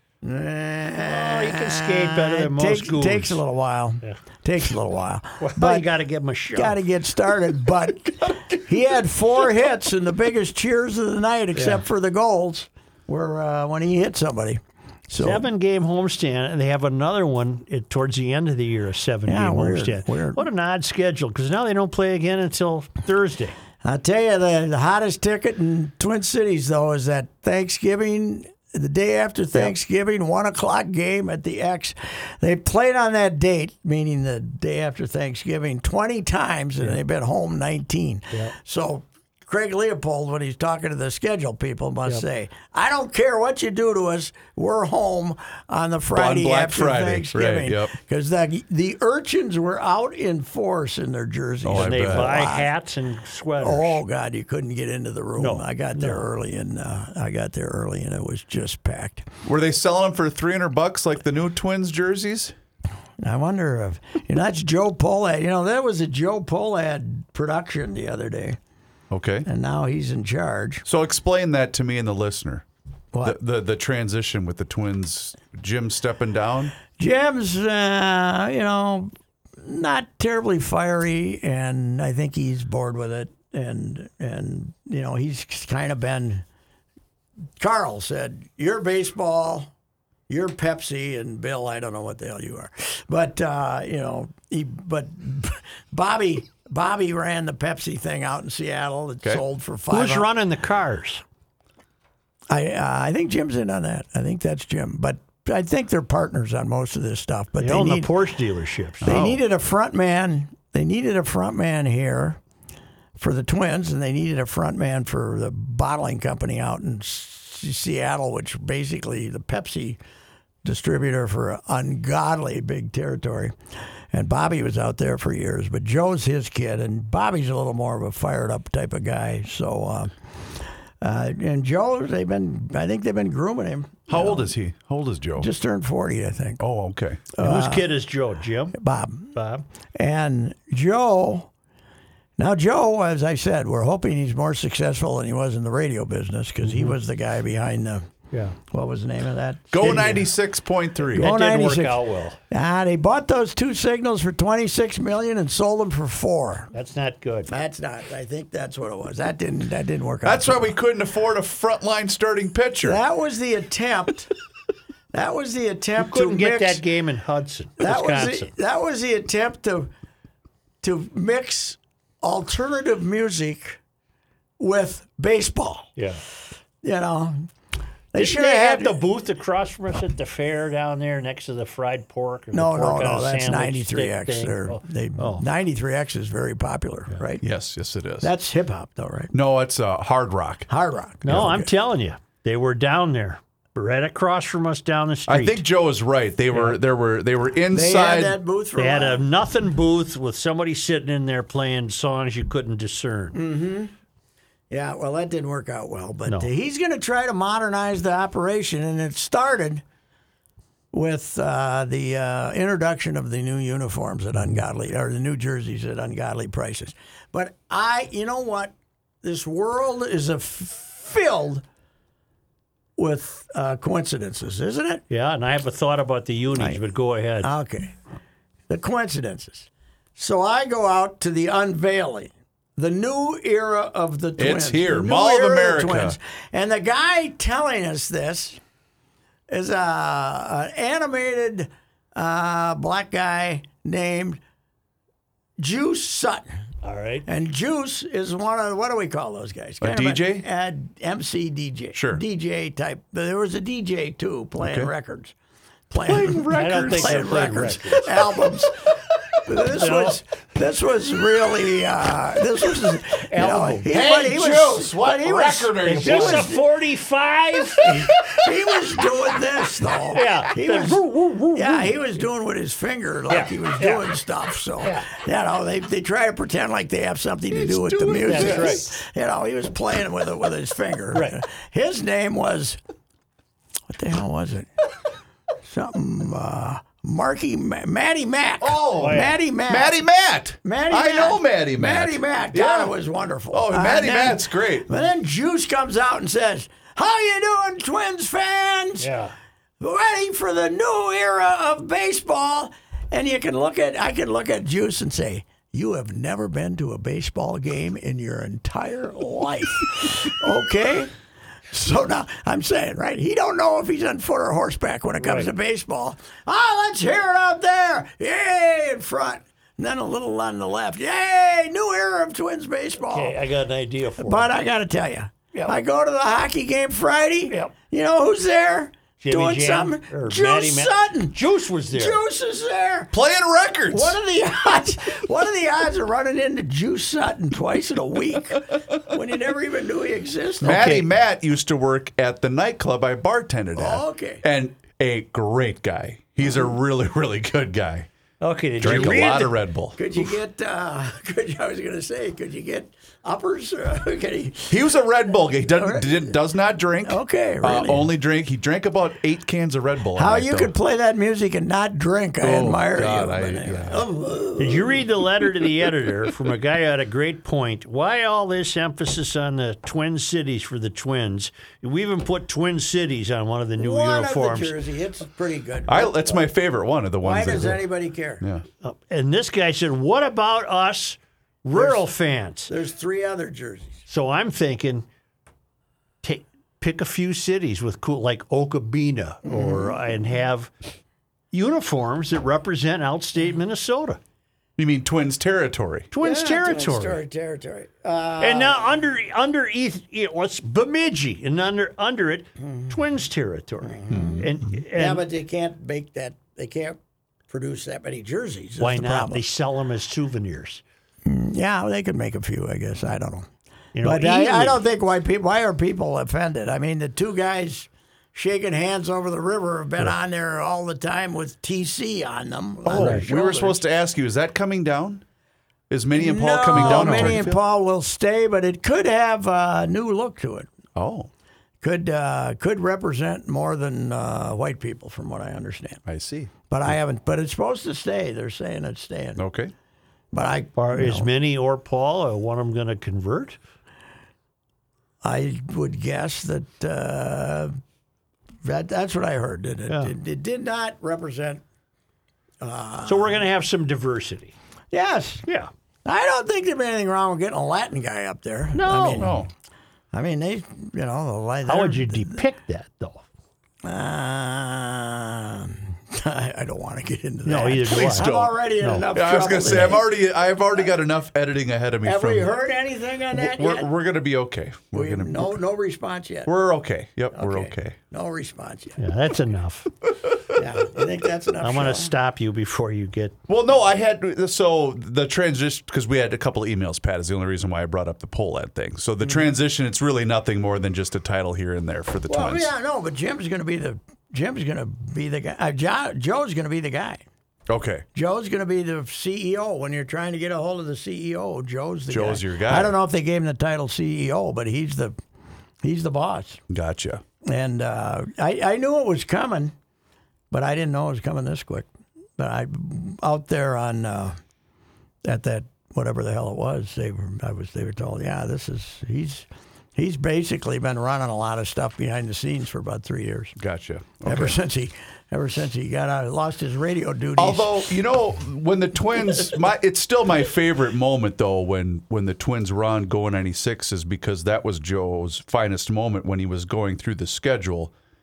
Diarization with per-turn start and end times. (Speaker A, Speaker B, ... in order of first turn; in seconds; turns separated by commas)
Speaker A: 0.2-5.9, Speaker B: 1.0-3.4, Speaker B: 5.4-6.8, Speaker A: 6.5-15.5, Speaker B: 11.6-11.8, Speaker B: 15.2-23.6, Speaker A: 19.3-20.4, Speaker A: 23.8-52.7, Speaker C: 46.1-47.9, Speaker C: 51.7-52.3, Speaker B: 51.7-54.0, Speaker A: 53.6-59.3, Speaker B: 55.4-56.2, Speaker C: 59.5-62.5, Speaker A: 63.2-68.6, Speaker C: 69.1-69.5, Speaker A: 69.5-70.8, Speaker C: 70.9-72.7, Speaker C: 73.2-76.8, Speaker A: 76.9-86.5, Speaker A: 87.6-89.7, Speaker A: 90.3-100.3, Speaker B: 99.9-101.2, Speaker A: 102.5-108.1, Speaker B: 107.6-109.4, Speaker C: 109.0-109.3, Speaker A: 109.0-112.4, Speaker A: 113.2-120.0, Speaker A: 120.6-123.6, Speaker A: 124.1-134.5, Speaker C: 134.1-135.5, Speaker A: 135.4-136.6, Speaker C: 136.6-137.3, Speaker A: 137.3-137.9, Speaker B: 137.4-138.8, Speaker A: 138.8-139.3, Speaker B: 139.3-139.6, Speaker A: 139.9-141.5, Speaker A: 142.4-148.1, Speaker B: 146.6-146.9, Speaker B: 148.3-148.6, Speaker A: 148.7-150.3, Speaker C: 149.7-151.3, Speaker A: 151.1-156.7, Speaker B: 151.2-152.4, Speaker B: 156.7-157.5, Speaker A: 157.5-160.7, Speaker C: 160.2-163.0, Speaker A: 162.8-164.3, Speaker A: 165.1-166.8, Speaker B: 166.0-168.5, Speaker A: 167.8-169.9, Speaker A: 170.8-173.8, Speaker A: 174.6-175.9, Speaker B: 176.0-176.2, Speaker A: 176.8-177.5, Speaker A: 178.1-179.0, Speaker B: 178.2-185.4, Speaker A: 182.5-187.4, Speaker C: 187.4-188.3, Speaker A: 188.2-189.3, Speaker C: 189.3-190.7, Speaker A: 190.7-191.7, Speaker B: 191.2-195.6, Speaker C: 195.3-198.4, Speaker A: 197.7-199.2, Speaker B: 198.8-203.4, Speaker A: 203.3-203.9, Speaker A: 204.7-209.8, Speaker A: 210.9-221.6, Speaker A: 223.0-225.0, Speaker B: 225.1-227.5, Speaker A: 227.4-228.0, Speaker A: 228.7-238.6, Speaker C: 234.4-236.2, Speaker A: 239.5-244.4, Speaker A: 245.6-246.5, Speaker B: 246.8-247.3, Speaker A: 247.3-255.3, Speaker C: 249.8-250.4, Speaker C: 251.9-252.2, Speaker C: 254.6-254.9, Speaker A: 255.9-258.9, Speaker C: 256.1-257.3, Speaker B: 256.4-258.3, Speaker A: 259.5-266.6, Speaker B: 259.7-260.2, Speaker C: 263.4-266.5, Speaker B: 263.4-263.9, Speaker B: 265.9-267.9, Speaker A: 267.8-282.8, Speaker C: 267.9-268.5, Speaker B: 270.1-272.0, Speaker B: 273.3-274.1, Speaker B: 274.8-275.1, Speaker C: 277.5-278.9, Speaker B: 278.3-278.8, Speaker B: 281.1-281.4, Speaker A: 283.9-284.7, Speaker A: 285.6-290.0, Speaker C: 288.6-292.9, Speaker B: 289.0-289.4, Speaker A: 290.6-299.1, Speaker C: 293.5-294.9, Speaker B: 299.0-299.3, Speaker A: 299.8-311.1, Speaker A: 311.7-323.4, Speaker B: 315.2-315.5, Speaker B: 323.0-324.5, Speaker A: 324.2-333.1, Speaker B: 329.2-332.2, Speaker C: 333.1-334.2, Speaker A: 333.9-341.0, Speaker B: 340.6-341.1, Speaker C: 340.6-348.1, Speaker A: 343.8-344.4, Speaker A: 346.4-346.7, Speaker B: 348.4-349.6, Speaker C: 348.8-350.0, Speaker A: 348.8-349.4, Speaker A: 349.9-354.8, Speaker C: 354.7-360.7, Speaker A: 355.7-356.4, Speaker A: 357.0-358.1, Speaker A: 360.1-365.1, Speaker C: 362.4-364.1, Speaker B: 364.6-374.8, Speaker A: 373.8-376.5, Speaker C: 375.9-377.8, Speaker A: 377.2-378.4, Speaker B: 378.8-382.7, Speaker A: 381.7-382.1, Speaker A: 382.7-384.0, Speaker B: 384.1-385.1, Speaker B: 386.2-390.7, Speaker A: 389.4-390.0, Speaker B: 391.5-394.2, Speaker C: 394.8-396.1, Speaker B: 396.1-397.2, Speaker A: 396.2-398.9, Speaker B: 398.4-405.2, Speaker A: 403.9-409.4, Speaker C: 404.1-404.4, Speaker B: 408.8-410.8, Speaker A: 411.2-413.5, Speaker B: 413.9-414.8, Speaker A: 414.0-423.8, Speaker C: 422.9-425.2, Speaker B: 423.0-423.2, Speaker C: 425.9-427.6, Speaker A: 426.1-430.7, Speaker B: 426.8-427.4, Speaker C: 431.0-431.3, Speaker A: 431.8-436.0, Speaker C: 436.1-436.5, Speaker A: 436.7-439.4, Speaker C: 439.4-439.7, Speaker A: 440.3-441.3, Speaker B: 440.8-443.6, Speaker A: 445.2-447.7, Speaker A: 448.6-451.6, Speaker B: 449.9-450.1, Speaker A: 452.6-453.4, Speaker B: 453.0-454.5, Speaker A: 454.9-455.4, Speaker A: 456.1-459.4, Speaker B: 458.8-459.3, Speaker C: 459.2-459.5, Speaker A: 460.1-462.4, Speaker B: 461.7-463.3, Speaker A: 463.8-470.1, Speaker B: 467.4-469.1, Speaker C: 468.0-468.5, Speaker C: 469.1-472.5, Speaker A: 472.0-473.9, Speaker C: 473.3-475.5, Speaker A: 474.9-476.5, Speaker C: 476.5-478.0, Speaker A: 477.3-479.0, Speaker B: 479.0-479.9, Speaker A: 480.6-482.1, Speaker B: 481.6-483.4, Speaker C: 483.5-492.7, Speaker A: 492.3-497.2, Speaker C: 497.7-498.1, Speaker A: 498.1-505.2, Speaker C: 502.1-502.9, Speaker A: 505.8-506.6, Speaker C: 506.7-507.2, Speaker A: 507.4-509.7, Speaker A: 510.5-514.4, Speaker A: 515.2-523.6, Speaker C: 523.6-524.6, Speaker A: 524.2-527.9, Speaker C: 527.4-537.9